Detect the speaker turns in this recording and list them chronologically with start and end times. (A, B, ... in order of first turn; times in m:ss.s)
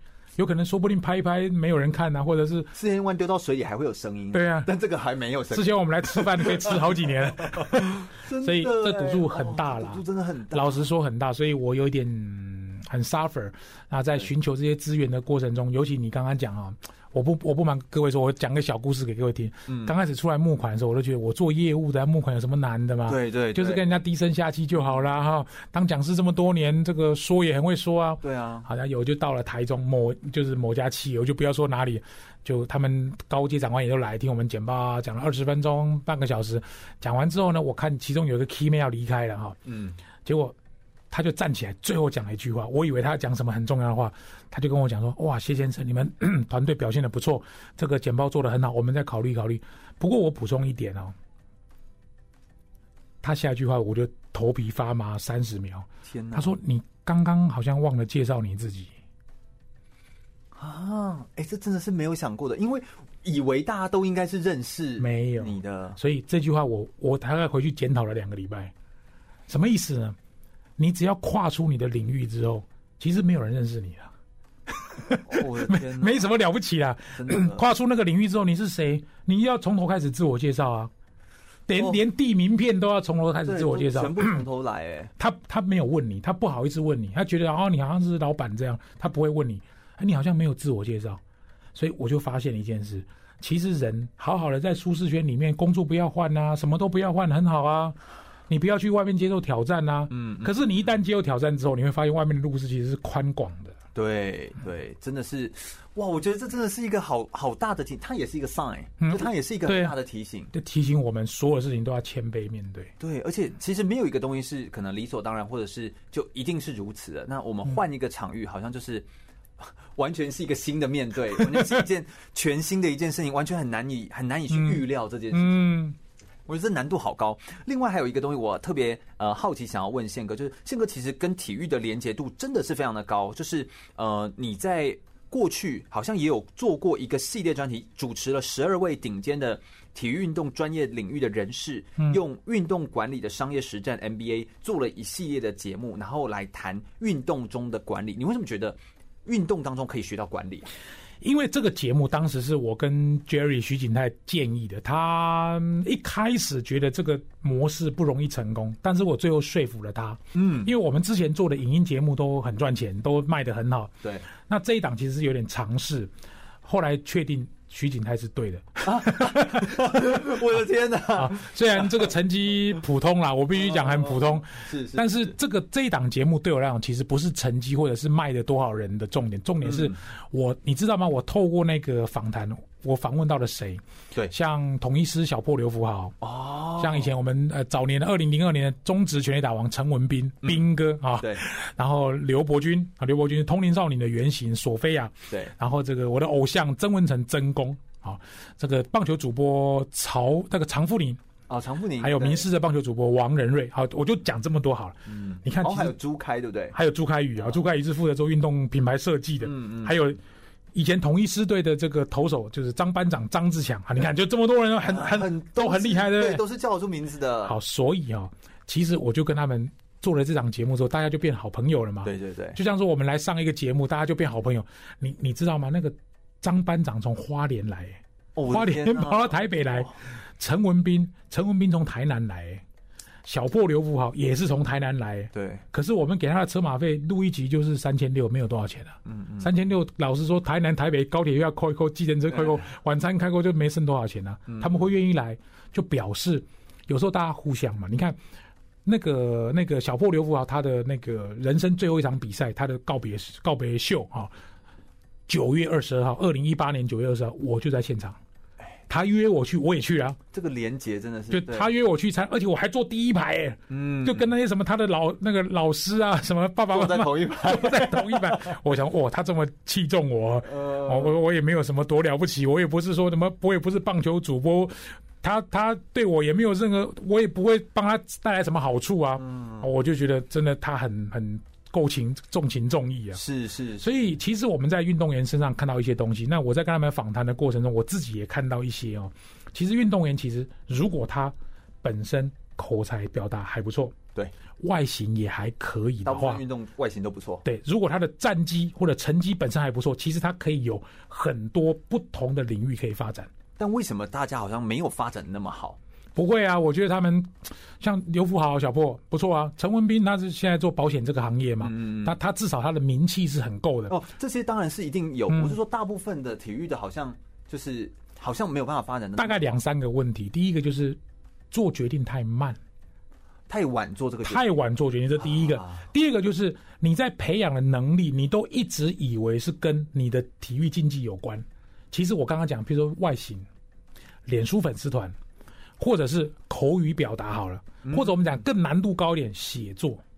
0:00.4-0:02.7 A
0:02.7-0:10.9 B
0:04.3-0:04.7 A
0:05.5-0:39.6 A
0:19.7-0:19.9 B
0:23.1-0:23.8 B
0:28.2-0:28.7 B
0:39.6-0:40.0 B
0:40.2-0:40.5 A
0:41.1-0:51.1 A
0:53.2-0:58.9 A
0:56.0-0:56.6 B
1:00.5-1:06.0 B
1:05.0-1:08.7 A
1:09.5-1:10.2 A
1:10.8-1:14.1 A
1:14.7-1:20.9 A
1:15.2-1:16.3 B
1:17.2-1:17.6 B
1:21.7-1:24.4 A
1:21.8-1:22.0 B
1:23.4-1:25.1 B
1:25.2-1:31.2 A
1:31.7-1:38.0 A
1:38.5-1:43.7 A
1:40.1-1:40.6 B
1:43.9-1:50.5 B
1:49.0-1:49.9 A
1:50.5-1:52.9 A
1:53.0-1:59.1 B
1:59.6-2:05.7 B
2:01.4-2:01.8 A
2:04.5-2:06.0 A
2:06.5-2:30.6 B
2:31.2-2:46.1 A
2:40.3-2:40.7 B
2:46.6-2:50.0 A
2:48.8-2:52.1 B
2:51.1-3:06.1 A
2:53.5-2:55.3 B
2:59.6-3:00.0 B
3:06.2-3:07.1 B
3:06.8-3:21.2 A
3:10.4-3:10.7 B
3:21.5-3:22.4 B
3:22.0-3:26.0 A
3:25.1-3:26.8 B
3:26.7-3:30.2 A
3:29.4-3:30.0 B
3:30.7-3:36.4 A
3:34.8-3:37.6 B
3:37.4-3:52.6 A
3:42.0-3:42.6 B
3:48.3-3:49.9 B
3:53.2-4:08.2 A
3:55.3-3:55.6 B
3:59.0-3:59.5 B
4:04.5-4:04.9 B
4:08.8-4:14.3 A
4:15.3-4:18.2 A
4:18.9-4:20.2 A
4:20.3-4:21.7 B
4:21.3-4:43.2 A
4:23.7-4:24.3 B
4:26.7-4:28.6 B
4:30.4-4:31.1 B
4:39.2-4:39.7 B
4:43.1-4:43.9 B
4:43.8-4:53.9 A
4:54.6-4:56.4 A
4:56.0-4:57.4 B
4:57.4-5:03.3 A
5:03.6-5:05.8 B
5:06.2-5:13.9 A
5:11.6-5:12.1 B
5:13.9-5:19.5 B
5:15.3-5:15.6 A
5:19.2-5:21.0 A
5:21.5-5:22.6 A
5:23.5-5:24.6 B
5:24.2-5:33.4 A
5:25.2-5:25.8 B
5:34.3-5:35.1 A
5:35.8-5:40.0 A
5:37.8-5:38.2 B